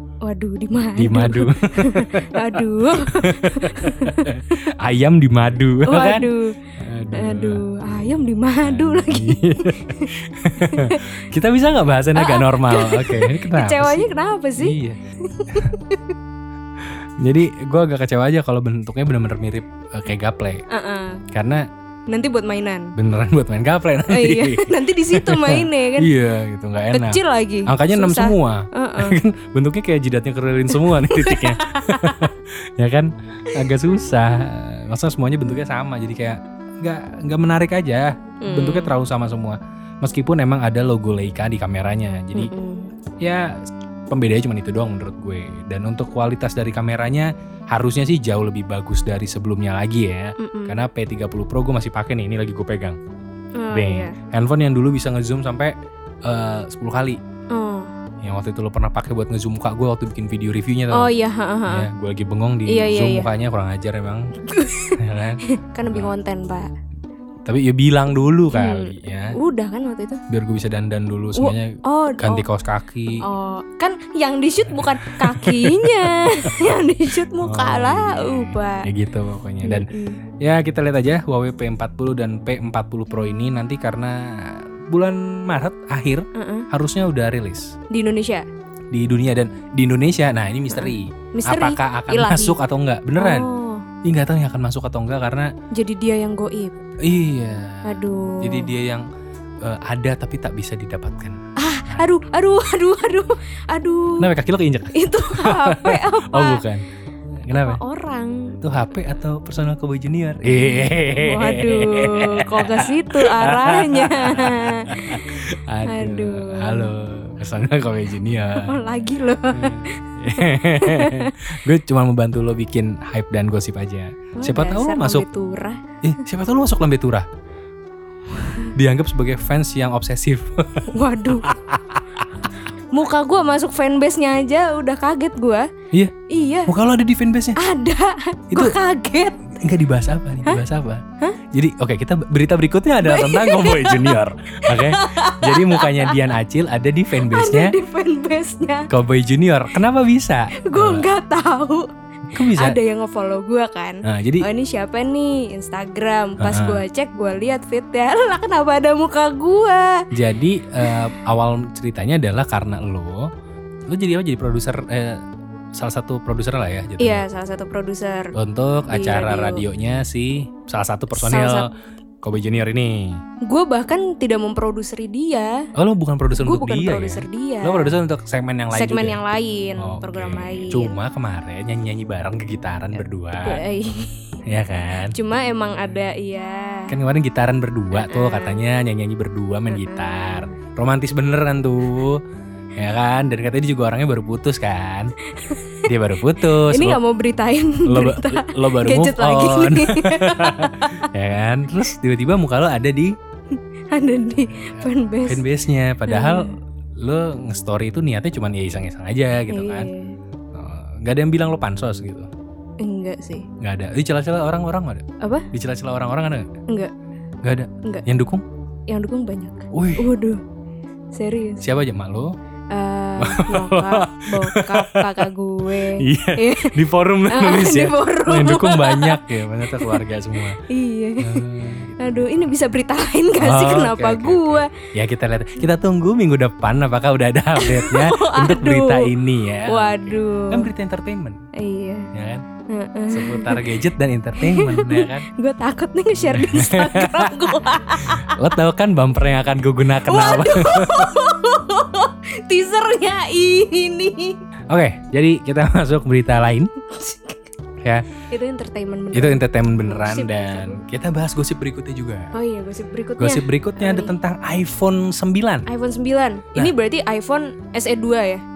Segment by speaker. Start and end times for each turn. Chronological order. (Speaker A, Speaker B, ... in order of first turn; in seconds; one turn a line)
Speaker A: 0.2-4.6
Speaker B: 1.0-7.6
Speaker A: 5.9-6.6
Speaker A: 7.1-11.1
Speaker B: 8.6-15.0
Speaker A: 12.2-16.1
Speaker B: 16.8-20.6
Speaker A: 20.7-21.2
Speaker B: 21.3-21.7
Speaker A: 22.1-22.9
Speaker B: 22.9-42.5
Speaker A: 24.1-26.1
Speaker A: 26.9-29.2
Speaker A: 30.7-32.3
Speaker A: 33.5-33.8
Speaker A: 38.4-38.9
Speaker A: 42.3-42.9
Speaker B: 43.2-43.5
Speaker B: 44.1-53.0
Speaker A: 50.4-50.8
Speaker A: 53.6-54.2
Speaker B: 53.7-55.7
Speaker B: 56.2-57.2
Speaker A: 57.5-57.9
Speaker B: 58.2-61.1
Speaker A: 60.9-61.9
Speaker B: 61.7-64.3
Speaker A: 62.7-63.3
Speaker A: 64.4-66.7
Speaker B: 65.0-66.1
Speaker B: 67.5-69.4
Speaker A: 68.5-70.2
Speaker B: 70.3-73.3
Speaker A: 71.4-72.5
Speaker A: 73.2-78.9
Speaker B: 74.7-76.8
Speaker B: 77.4-79.9
Speaker A: 79.6-80.2
Speaker B: 80.4-87.8
Speaker A: 86.3-86.7
Speaker A: 87.9-88.5
Speaker B: 88.9-93.5
Speaker A: 90.7-92.6
Speaker A: 93.2-93.9
Speaker B: 94.0-95.5
Speaker A: 95.7-96.9
Speaker B: 97.0-99.1
Speaker A: 97.8-98.7
Speaker B: 99.6-102.1
Speaker A: 101.6-104.3
Speaker B: 104.2-106.8
Speaker A: 104.9-106.6
Speaker B: 107.4-107.8
Speaker A: 107.5-108.6
Speaker B: 108.6-118.8
Speaker A: 111.0-116.9
Speaker A: 118.5-121.4
Speaker B: 119.5-125.3
Speaker A: 124.4-125.8
Speaker B: 126.0-127.3
Speaker A: 128.3-128.8
Speaker B: 128.8-132.3
Speaker A: 130.9-131.5
Speaker A: 132.7-135.7
Speaker A: 136.3-136.7
Speaker B: 136.7-137.6
Speaker A: 137.6-139.4
Speaker B: 138.5-138.8
Speaker B: 139.5-147.8
Speaker A: 143.0-146.3
Speaker A: 147.2-148.9
Speaker B: 148.9-151.1
Speaker A: 150.6-160.1
Speaker B: 152.3-152.8
Speaker B: 154.1-154.5
Speaker B: 156.4-156.8
Speaker B: 160.1-163.3
Speaker A: 160.8-161.1
Speaker B: 163.9-165.2
Speaker B: 165.8-167.2
Speaker A: 167.0-168.3
Speaker B: 168.3-171.7
Speaker A: 168.9-169.7
Speaker A: 171.1-171.7
Speaker B: 172.2-173.2
Speaker A: 173.4-175.7
Speaker B: 175.8-179.2
Speaker A: 176.3-178.0
Speaker A: 178.7-181.0
Speaker B: 179.8-183.6
Speaker A: 183.4-184.3
Speaker B: 184.5-185.2
Speaker A: 185.1-186.9
Speaker B: 186.9-192.2
Speaker A: 187.9-188.6
Speaker A: 189.7-190.6
Speaker B: 192.8-195.1
Speaker A: 195.2-201.1
Speaker B: 195.9-197.0
Speaker B: 197.8-203.2
Speaker A: 203.5-205.4
Speaker B: 204.5-209.9
Speaker A: 206.1-206.6
Speaker A: 209.5-210.2
Speaker B: 210.5-212.3
Speaker A: 212.8-213.5
Speaker B: 213.6-216.5
Speaker A: 215.2-215.5
Speaker B: 217.4-218.4
Speaker A: 218.9-220.4
Speaker B: 219.7-220.1
Speaker A: 221.1-221.7
Speaker B: 221.6-222.3
Speaker A: 222.7-230.1
Speaker B: 223.2-230.6
Speaker A: 230.6-234.7
Speaker B: 231.2-232.5
Speaker B: 233.4-241.4
Speaker A: 237.6-239.1
Speaker A: 239.7-240.7
Speaker A: 241.5-242.1
Speaker B: 242.1-242.4
Speaker A: 242.7-243.7
Speaker B: 243.1-245.3
Speaker A: 244.4-248.5
Speaker B: 246.2-251.2
Speaker A: 250.0-254.4
Speaker B: 254.7-256.7
Speaker A: 256.8-257.5
Speaker B: 257.8-258.1
Speaker A: 258.3-260.8
Speaker B: 259.1-262.3
Speaker A: 262.3-264.1
Speaker B: 263.2-265.7
Speaker A: 265.7-268.4